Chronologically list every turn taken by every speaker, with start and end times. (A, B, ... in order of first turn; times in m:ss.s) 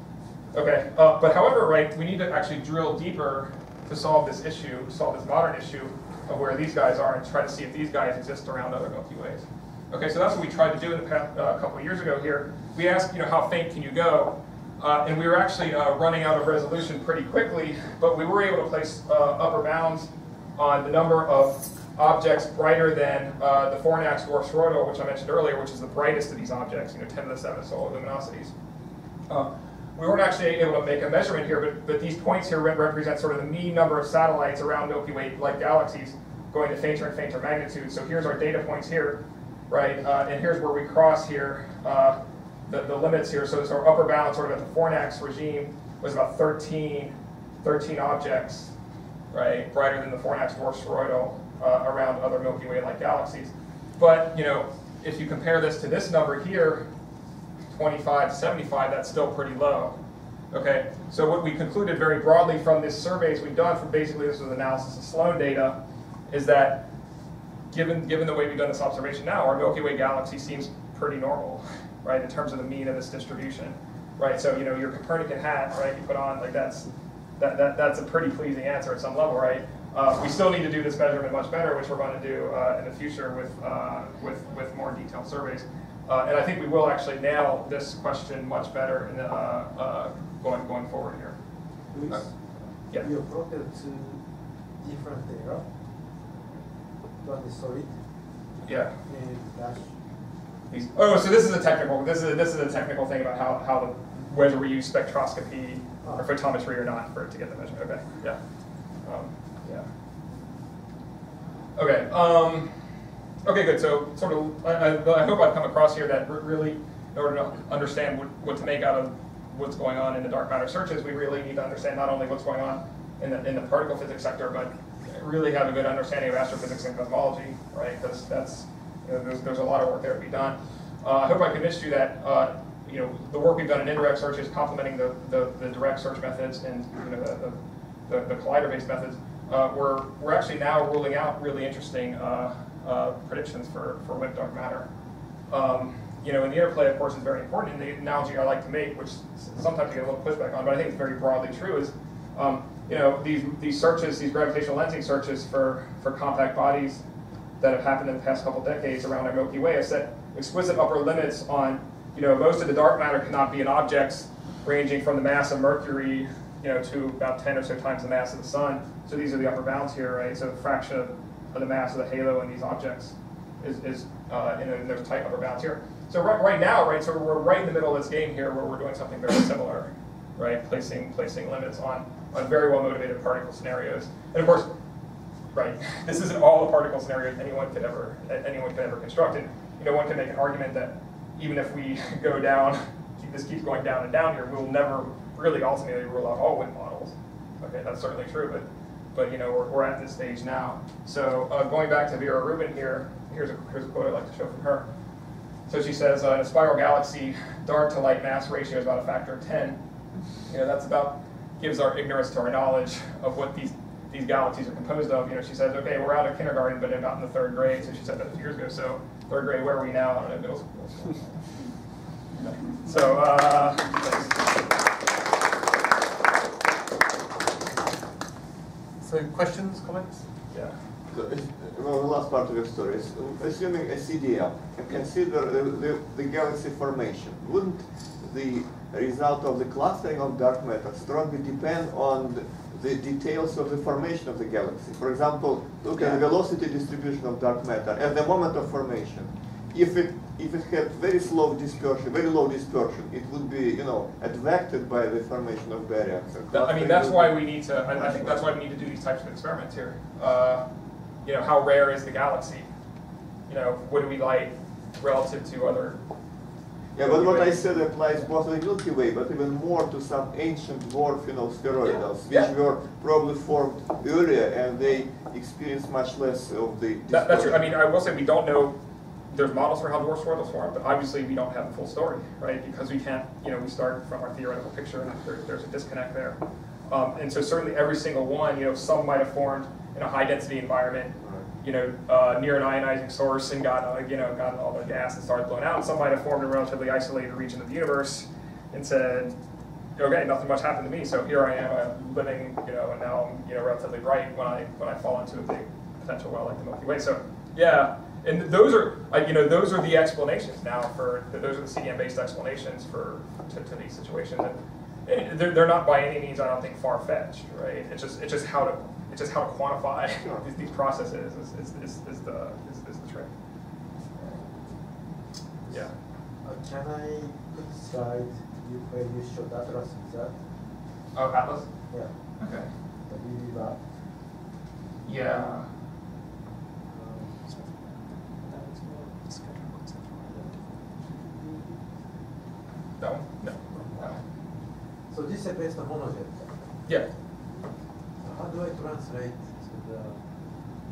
0:00.5-0:28.5 A
0:29.3-0:48.7 A
0:49.3-0:56.9 A
0:57.7-1:00.0 A
1:00.5-1:05.8 A
1:06.3-1:06.9 A
1:07.7-1:31.4 A
1:31.9-1:34.2 B
1:34.8-1:35.7 B
1:37.2-1:38.0 B
1:38.6-1:38.9 A
1:39.0-1:39.9 B
1:40.7-1:48.4 A
1:49.0-1:49.9 A
1:51.8-1:52.7 A
1:53.4-2:17.6 A
2:18.1-2:24.9 A
2:25.5-2:37.0 A
2:37.6-3:04.7 A
3:05.5-3:24.8 A
3:25.7-3:29.8 A
3:30.5-3:41.5 A
3:42.4-3:44.7 A
3:49.0-3:50.2 C
3:50.5-3:50.8 A
3:51.1-4:18.5 D
4:16.5-4:20.6 A
4:21.2-4:22.7 A
4:23.5-4:26.0 A
4:26.9-4:37.7 D
4:27.0-4:27.6 A
4:37.1-4:38.8 A
4:39.3-4:46.4 A
4:46.9-4:59.3 A
5:00.0-5:23.3 A
5:20.2-5:20.4 D
5:24.2-5:24.4 A
5:26.4-5:30.4 B
5:31.1-5:31.7 A
5:32.4-5:32.7 A
5:33.0-5:33.8 B
5:35.0-5:35.6 A
5:36.9-5:37.4 B
5:37.4-5:40.8 C
5:41.0-5:41.8 B
5:43.0-5:44.2 A
5:43.7-5:44.2 B
5:45.1-5:46.6 B
5:48.2-5:50.2 B